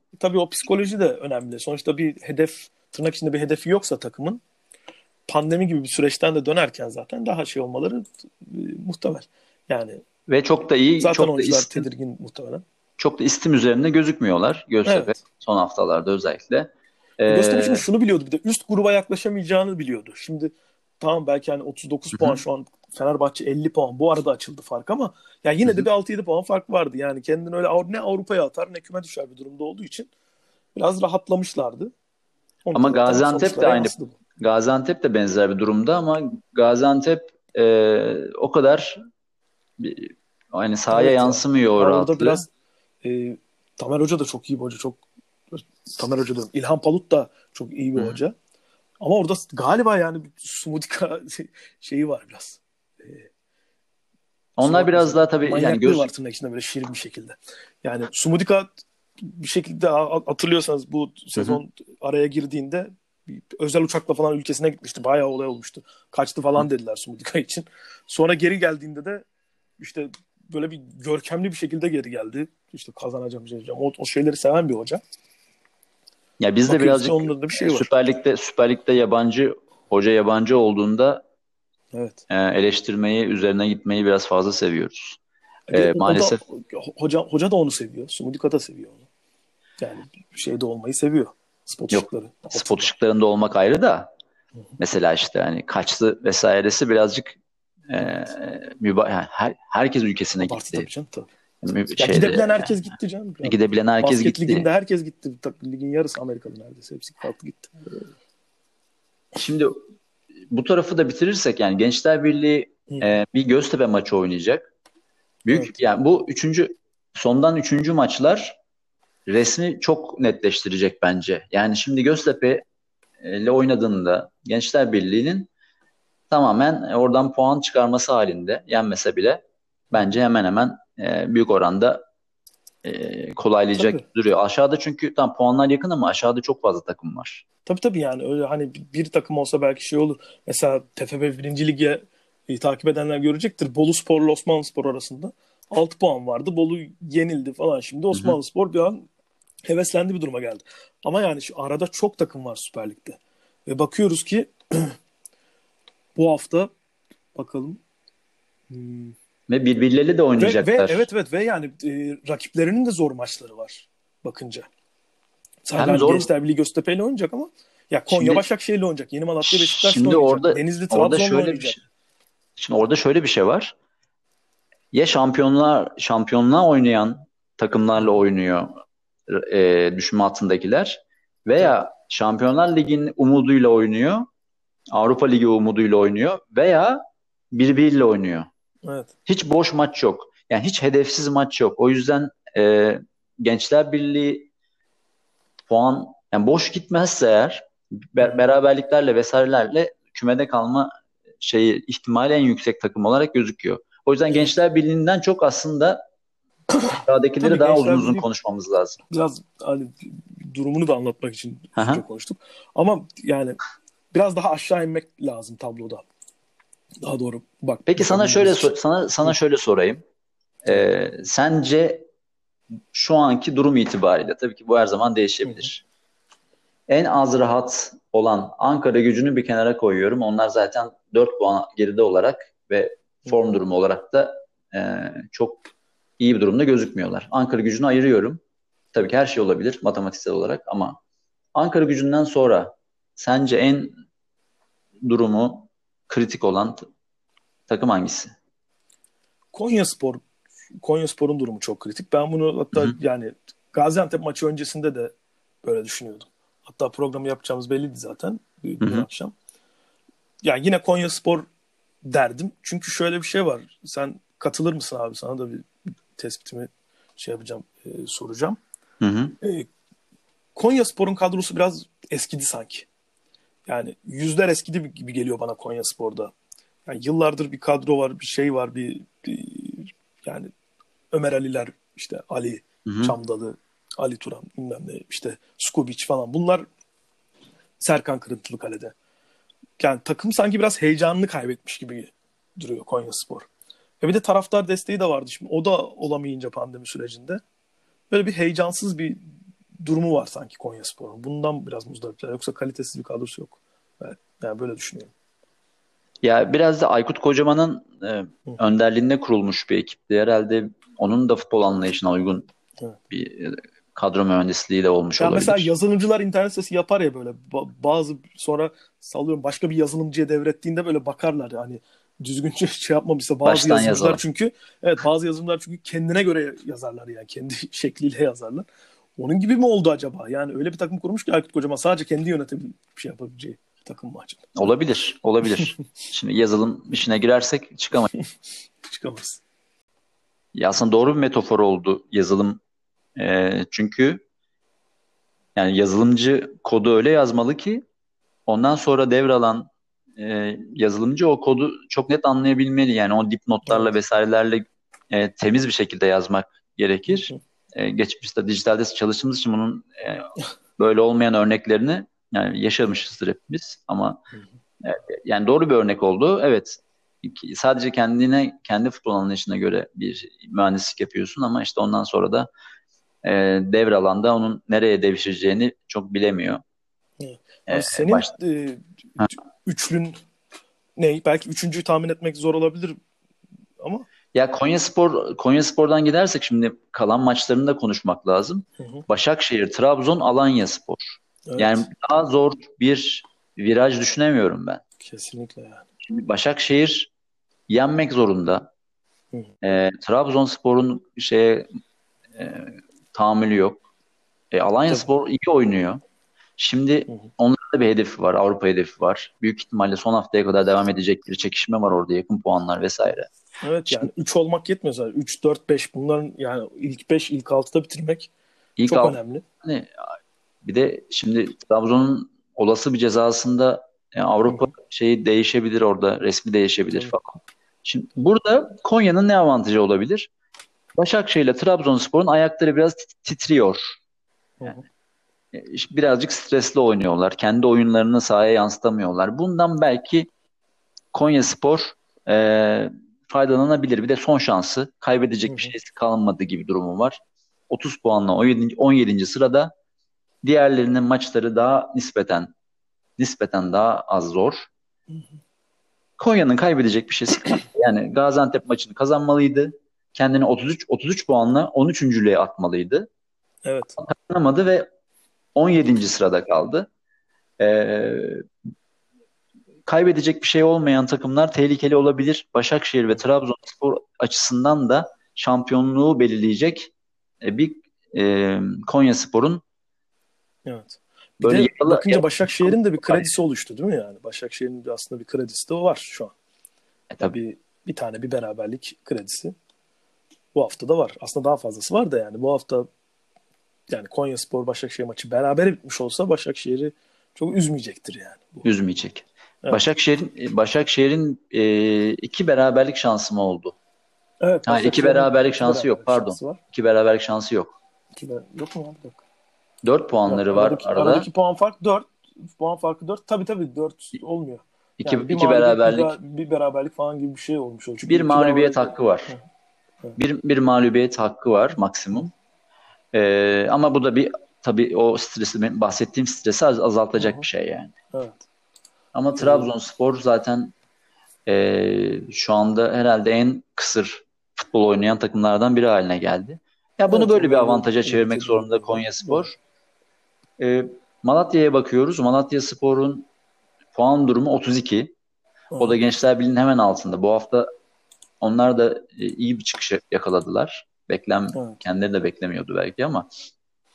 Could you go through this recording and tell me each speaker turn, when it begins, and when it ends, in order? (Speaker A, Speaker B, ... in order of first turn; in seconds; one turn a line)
Speaker A: 0.2-4.4
Speaker A: 5.3-10.0
Speaker B: 10.3-11.8
Speaker A: 11.0-12.6
Speaker B: 13.0-17.8
Speaker A: 14.8-15.1
Speaker A: 17.3-30.1
Speaker B: 22.1-22.4
Speaker A: 30.8-31.9
Speaker A: 32.6-34.1
Speaker B: 32.7-39.0
Speaker B: 39.8-42.4
Speaker A: 40.9-42.5
Speaker A: 43.0-48.3
Speaker A: 49.0-53.3
Speaker B: 54.6-56.1
Speaker A: 54.6-69.2
Speaker B: 61.4-61.6
Speaker A: 69.8-75.0
Speaker B: 76.4-81.2
Speaker A: 76.7-77.9
Speaker A: 81.9-82.2
Speaker B: 82.3-85.2
Speaker A: 85.7-89.0
Speaker B: 85.7-86.4
Speaker A: 89.8-92.9
Speaker B: 91.9-94.1
Speaker B: 94.8-100.9
Speaker A: 100.4-101.3
Speaker B: 101.6-102.7
Speaker A: 101.9-107.7
Speaker B: 103.4-104.7
Speaker B: 109.3-109.8
Speaker B: 110.5-114.7
Speaker B: 115.4-118.6
Speaker A: 115.5-115.8
Speaker B: 119.3-122.6
Speaker B: 123.2-125.5
Speaker B: 126.3-132.0
Speaker B: 132.8-137.4
Speaker A: 133.8-134.0
Speaker A: 137.7-149.1
Speaker A: 149.7-154.9
Speaker A: 156.2-156.7
Speaker A: 157.3-157.8
Speaker A: 158.7-159.1
Speaker B: 159.5-161.0
Speaker A: 160.4-164.7
Speaker A: 165.6-171.8
Speaker B: 165.8-166.3
Speaker B: 168.1-168.4
Speaker B: 169.4-171.8
Speaker B: 172.6-173.7
Speaker B: 174.9-178.7
Speaker B: 179.3-184.3
Speaker B: 184.9-188.5
Speaker A: 188.8-189.1
Speaker B: 189.3-194.5
Speaker B: 195.7-206.0
Speaker A: 206.8-208.2
Speaker B: 206.9-209.0
Speaker A: 209.1-213.6
Speaker B: 211.8-212.0
Speaker A: 214.1-216.1
Speaker A: 217.0-218.7
Speaker B: 217.9-220.0
Speaker B: 220.6-222.1
Speaker B: 222.9-225.8
Speaker B: 226.9-235.6
Speaker B: 236.2-238.4
Speaker B: 238.9-241.0
Speaker B: 241.5-243.9
Speaker B: 245.0-246.8
Speaker B: 247.7-248.3
Speaker A: 249.5-250.2
Speaker A: 250.8-259.3
Speaker A: 260.4-261.5
Speaker A: 262.0-268.6
Speaker B: 269.0-269.3
Speaker A: 269.4-269.7
Speaker A: 270.6-272.9
Speaker A: 273.7-276.3
Speaker A: 276.9-280.5
Speaker A: 281.1-286.6
Speaker B: 282.9-283.1
Speaker A: 287.8-288.9
Speaker A: 289.8-293.5
Speaker A: 294.0-297.4
Speaker A: 298.1-299.2
Speaker A: 299.8-305.1
Speaker B: 306.2-312.5
Speaker B: 313.1-315.7
Speaker A: 315.1-328.6
Speaker B: 323.4-324.2
Speaker A: 329.2-334.4
Speaker B: 334.6-338.1
Speaker A: 338.8-339.4
Speaker B: 340.5-342.6
Speaker B: 343.1-344.2
Speaker B: 345.6-347.8
Speaker B: 348.5-364.2
Speaker A: 357.1-357.4
Speaker B: 364.8-372.5
Speaker B: 373.2-376.6
Speaker A: 377.2-380.2
Speaker B: 377.7-378.3
Speaker A: 381.0-383.0
Speaker A: 383.8-384.1
Speaker B: 384.3-394.8
Speaker A: 388.8-389.0
Speaker A: 391.5-391.9
Speaker A: 395.0-395.8
Speaker B: 396.0-397.1
Speaker B: 397.7-398.7
Speaker B: 399.6-401.7
Speaker B: 402.3-403.8
Speaker B: 404.5-406.0
Speaker B: 406.6-413.3
Speaker A: 413.6-418.3
Speaker B: 418.8-420.0
Speaker A: 418.9-419.4
Speaker B: 420.6-430.3
Speaker B: 430.9-433.9
Speaker A: 434.6-434.8
Speaker B: 435.5-440.3
Speaker B: 441.1-447.2
Speaker A: 445.4-445.7
Speaker B: 447.7-449.7
Speaker B: 450.4-452.5
Speaker B: 453.2-454.7
Speaker B: 456.2-463.1
Speaker A: 463.6-464.0
Speaker B: 464.0-464.9
Speaker B: 465.5-466.9
Speaker B: 467.6-468.4
Speaker B: 469.9-479.6
Speaker A: 480.6-486.3
Speaker B: 481.4-483.3
Speaker B: 487.1-487.3
Speaker A: 487.2-489.5
Speaker A: 490.5-492.9
Speaker A: 493.9-498.6
Speaker B: 498.6-503.8
Speaker A: 504.4-506.6
Speaker B: 504.7-507.7
Speaker A: 508.2-509.2
Speaker B: 509.8-511.2
Speaker A: 510.3-519.4
Speaker B: 515.0-516.1
Speaker B: 518.0-519.3
Speaker B: 520.1-522.3
Speaker B: 523.1-527.9
Speaker A: 527.2-527.4
Speaker A: 528.1-528.4
Speaker B: 529.1-530.7
Speaker A: 529.4-529.7
Speaker B: 531.5-539.5
Speaker A: 537.1-539.4
Speaker B: 540.6-543.3
Speaker B: 543.9-545.1
Speaker A: 545.7-546.0
Speaker B: 545.8-547.7
Speaker B: 548.4-553.2
Speaker A: 551.5-551.8